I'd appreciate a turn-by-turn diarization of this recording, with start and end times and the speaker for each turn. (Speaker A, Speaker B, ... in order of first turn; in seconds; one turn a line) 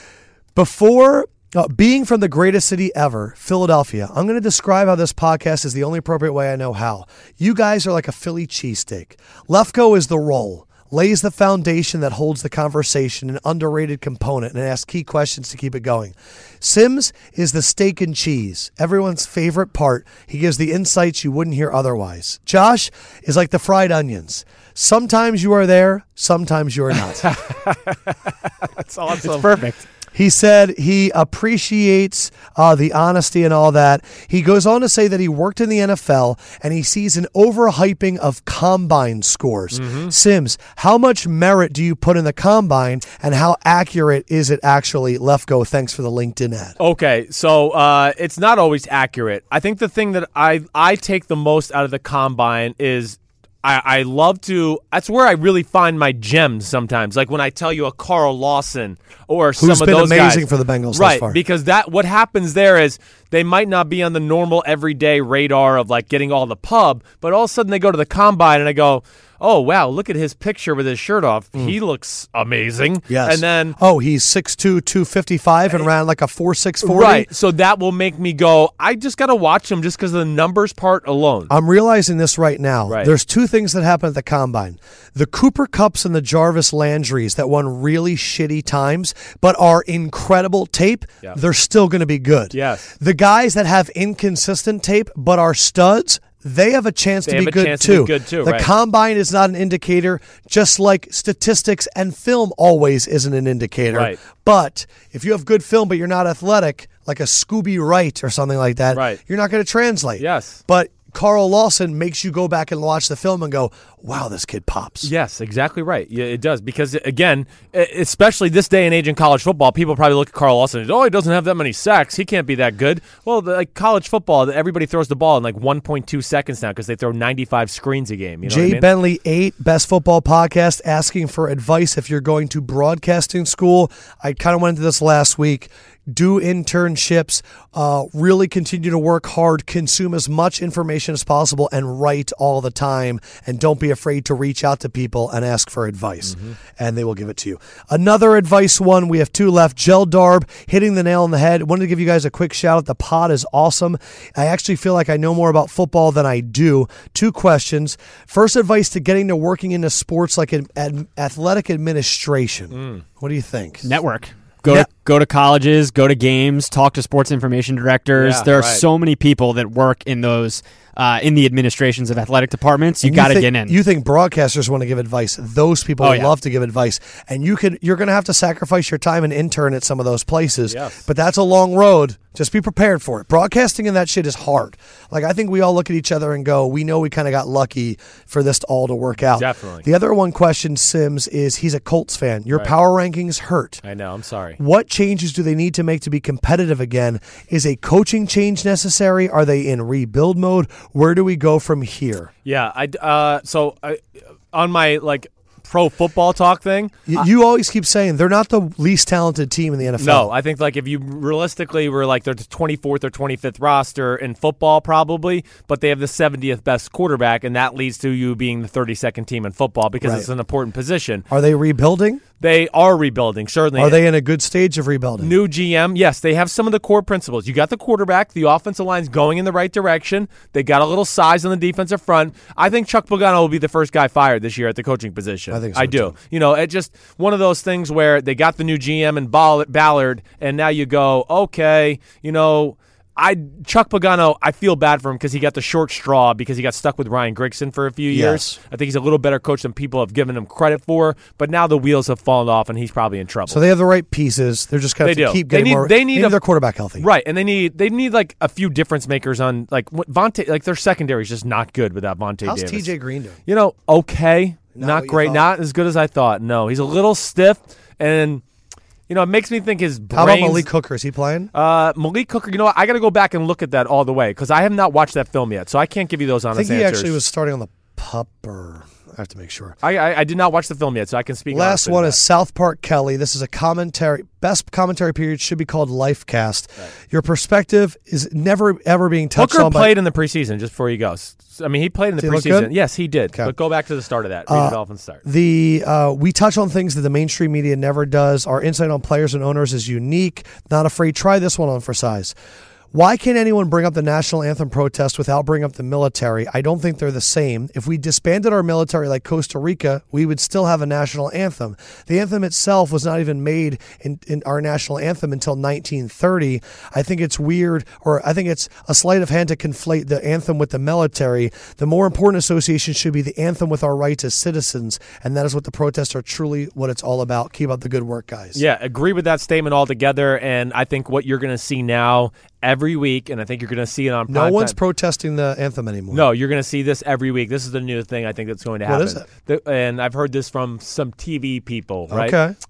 Speaker A: 0.5-27.3
Speaker B: 27.2-29.5
Speaker C: 29.2-29.8
Speaker A: 30.1-46.8
Speaker B: 39.7-40.1
Speaker B: 46.8-73.8
Speaker A: 59.6-61.4
Speaker A: 73.1-77.3
Speaker B: 76.8-81.5
Speaker A: 81.5-115.1
Speaker B: 92.5-92.9
Speaker B: 97.2-98.7
Speaker B: 103.9-104.2
Speaker B: 108.9-109.2
Speaker B: 110.2-110.6
Speaker B: 115.0-128.8
Speaker A: 128.4-163.8
Speaker B: 162.7-163.0
Speaker C: 163.8-173.8
Speaker B: 168.2-168.8
Speaker A: 173.0-193.8
Speaker C: 176.0-176.3
Speaker B: 180.7-181.0
Speaker B: 189.4-189.8
Speaker B: 193.8-194.6
Speaker A: 194.6-202.3
Speaker B: 202.4-207.2
Speaker A: 207.1-210.3
Speaker B: 210.0-221.2
Speaker A: 220.0-220.3
Speaker A: 221.3-222.2
Speaker B: 222.4-224.0
Speaker A: 223.8-225.3
Speaker B: 225.2-253.6
Speaker A: 235.5-236.1
Speaker A: 248.1-248.6
Speaker A: 253.5-257.1
Speaker B: 255.0-256.4
Speaker B: 257.0-262.9
Speaker A: 262.4-263.4
Speaker B: 263.5-268.4
Speaker A: 264.7-265.4
Speaker B: 269.1-270.7
Speaker A: 270.1-271.5
Speaker B: 271.5-277.1
Speaker A: 276.5-279.8
Speaker B: 279.8-282.2
Speaker A: 281.5-289.9
Speaker B: 289.4-295.2
Speaker A: 292.2-292.7
Speaker A: 294.5-302.3
Speaker A: 302.9-328.6
Speaker B: 328.5-334.8
Speaker A: 334.3-336.3
Speaker B: 336.1-342.4
Speaker A: 338.9-339.2
Speaker A: 342.1-342.6